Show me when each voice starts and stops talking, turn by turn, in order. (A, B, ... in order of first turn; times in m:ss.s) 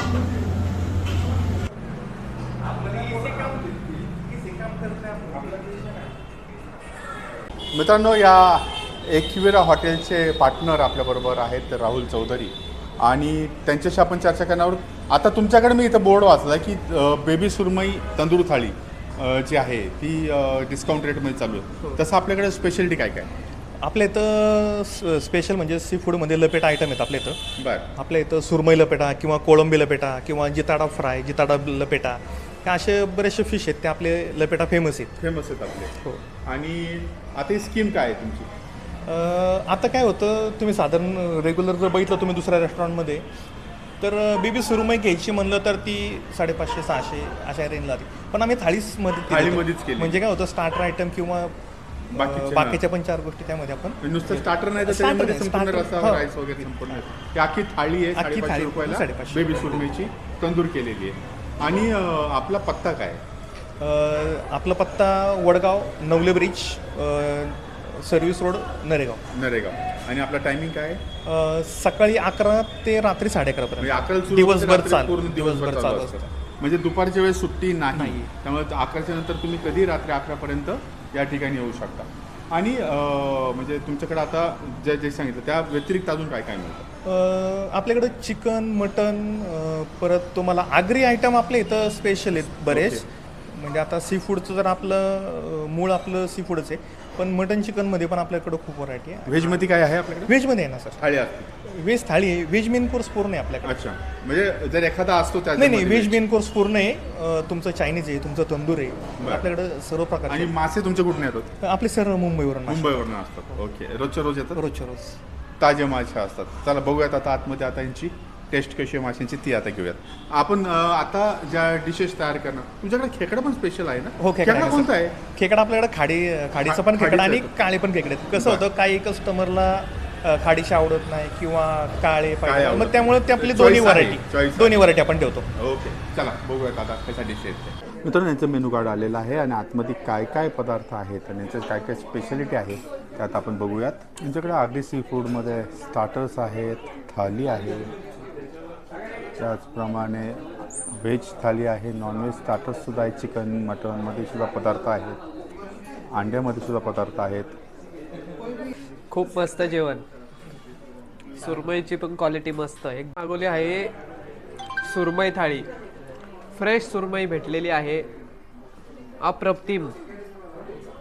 0:07.7-0:23.3 A
0:23.8-0:27.4 B
0:27.6-0:27.9 A
0:28.0-0:35.1 B
0:35.2-0:35.9 A
0:36.4-0:38.5 A
0:39.0-0:43.2 B
0:44.0-0:51.6 B
0:49.3-0:50.2 A
0:52.1-0:56.7 B
0:52.1-0:52.8 A
0:54.0-1:03.2 A
0:58.1-0:59.9 B
1:03.8-1:09.2 B
1:09.3-1:11.0 A
1:11.2-1:16.3 B
1:13.8-1:26.8 A
1:17.9-1:18.3 B
1:27.0-1:39.7 B
1:32.6-1:33.0 A
1:39.3-1:40.3 A
1:40.2-1:41.0 B
1:41.0-1:41.5 A
1:41.6-1:43.8 B
1:43.6-1:46.2 A
1:45.6-1:50.6 B
1:49.2-1:49.5 A
1:50.3-1:51.5 A
1:51.6-1:53.1 B
1:52.7-1:54.6 A
1:54.5-1:55.2 B
1:55.6-2:05.2 A
2:04.2-2:15.5 B
2:06.6-2:07.5 A
2:08.3-2:08.6 A
2:12.4-2:14.9 A
2:15.6-2:27.9 A
2:29.4-2:30.4 A
2:31.0-2:35.2 A
2:36.1-2:37.5 A
2:39.1-2:40.0 C
2:41.4-2:43.9 C
2:44.8-2:45.7 C
2:46.5-2:48.1 C
2:49.2-2:50.0 C